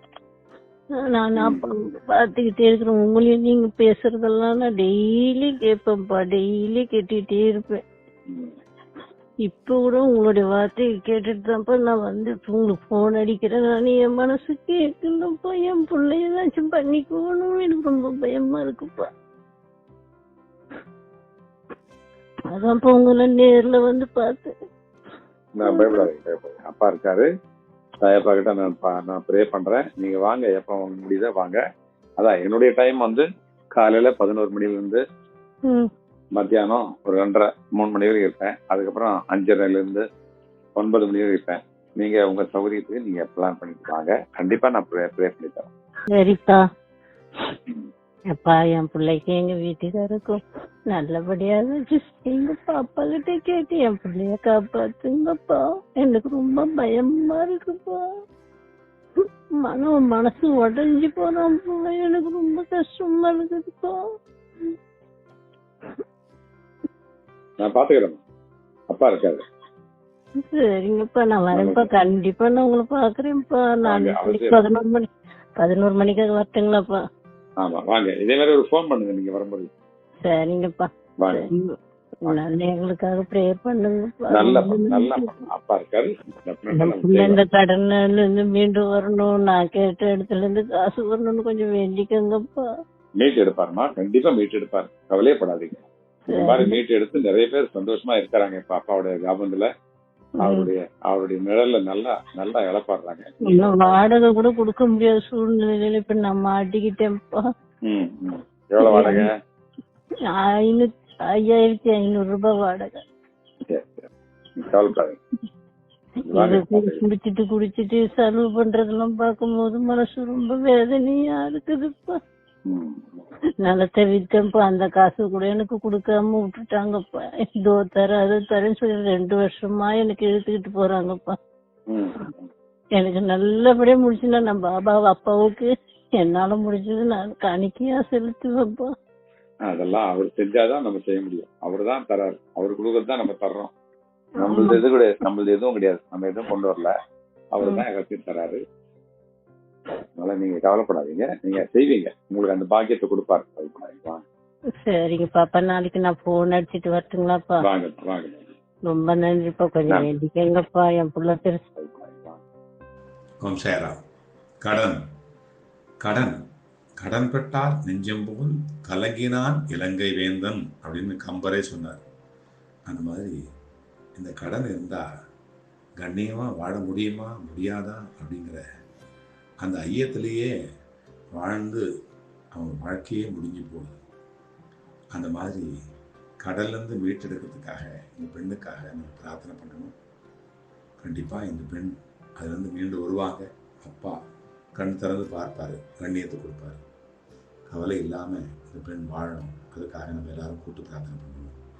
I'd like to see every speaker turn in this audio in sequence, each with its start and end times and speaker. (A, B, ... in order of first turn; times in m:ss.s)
0:01.0-0:07.8 A
0:01.4-0:01.6 B
0:09.5-0:19.1 A
0:22.5-0:24.5 A
0:25.5-0:27.3 B
0:25.6-0:26.1 A
0:28.0-0:31.6 B
0:32.2-0:35.0 B
0:36.4-0:40.0 B
0:40.8-0:45.7 B
0:46.1-0:46.6 A
0:48.3-0:50.4 A
0:50.9-0:58.0 A
0:59.6-1:04.0 A
1:07.6-1:08.2 B
1:08.9-1:09.4 B
1:10.5-1:15.1 A
1:11.5-1:11.9 B
1:13.8-1:14.6 B
1:15.6-1:17.0 A
1:17.6-1:19.7 B
1:20.2-1:21.7 A
1:21.2-1:21.5 B
1:22.2-1:25.3 A
1:24.3-1:27.4 B
1:26.7-1:32.6 A
1:33.2-1:39.7 B
1:36.3-1:36.8 A
1:40.4-1:44.0 B
1:40.4-1:40.7 A
1:43.4-1:47.4 A
1:47.9-1:49.3 B
1:48.8-1:49.3 A
1:50.4-1:53.0 A
1:53.7-1:55.2 B
1:56.2-1:57.0 B
1:56.3-2:02.2 A
2:02.7-2:03.2 B
2:03.6-2:11.3 A
2:11.9-2:12.5 B
2:13.0-2:15.7 A
2:16.2-2:18.9 A
2:19.6-2:23.7 B
2:24.4-2:26.9 B
2:24.4-2:24.8 A
2:27.5-2:28.6 B
2:30.2-2:34.2 B
2:34.8-2:37.5 A
2:37.6-2:38.5 B
2:38.9-2:41.6 A
2:41.8-2:42.4 B
2:43.4-2:43.9 C
2:44.6-2:45.0 C
2:46.0-2:46.3 C
2:47.0-2:52.0 C
2:52.9-2:53.4 C
2:54.2-2:55.0 C
2:56.0-2:58.6 C
2:59.6-3:00.5 C
3:01.4-3:01.8 C
3:02.5-3:04.0 C
3:05.1-3:05.7 C
3:06.4-3:09.9 C
3:11.0-3:14.1 C
3:14.8-3:16.8 C
3:17.7-3:21.5 C